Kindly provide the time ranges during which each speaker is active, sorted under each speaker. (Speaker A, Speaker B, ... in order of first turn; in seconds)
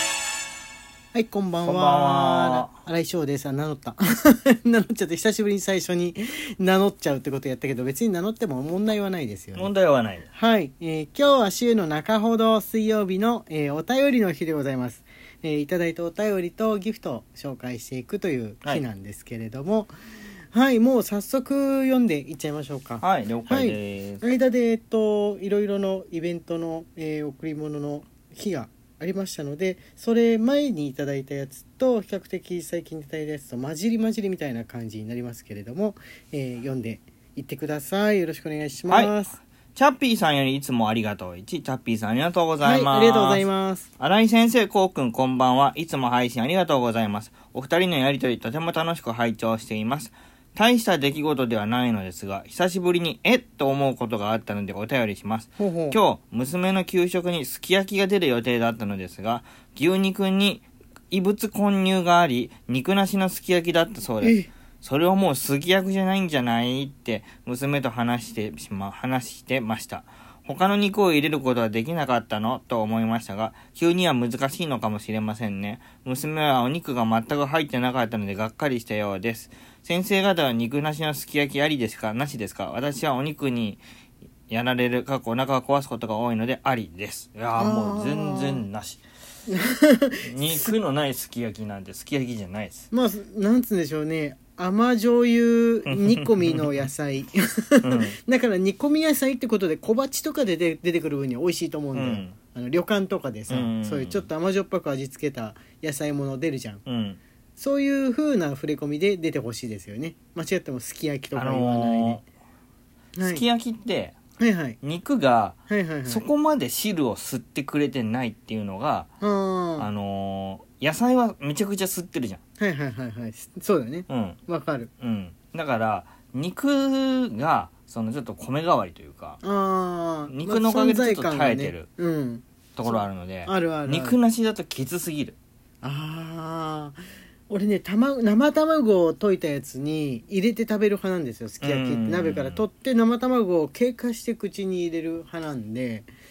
Speaker A: 1.1-9.7, 10.3-19.9, 20.5-39.4, 42.6-43.9, 55.6-56.0, 64.2-64.5, 87.6-88.6, 89.5-90.7, 92.9-106.8, 107.6-112.3, 113.2-113.4, 114.4-114.8, 115.7-116.2, 119.2-119.9, 122.6-124.9, 129.4-134.2, 135.8-146.1
Speaker B: 1.6-2.7, 9.6-10.3, 23.0-24.2, 38.9-39.2, 39.7-43.4, 44.0-83.8, 84.5-89.0, 90.2-92.9, 95.9-96.8, 97.8-98.1, 101.9-102.4, 103.5-104.3, 106.8-107.2, 111.3-112.2, 113.2-114.2, 114.8-119.1, 119.8-122.4, 124.1-124.4, 125.0-129.4, 130.3-131.9, 132.8-135.4, 141.6-142.6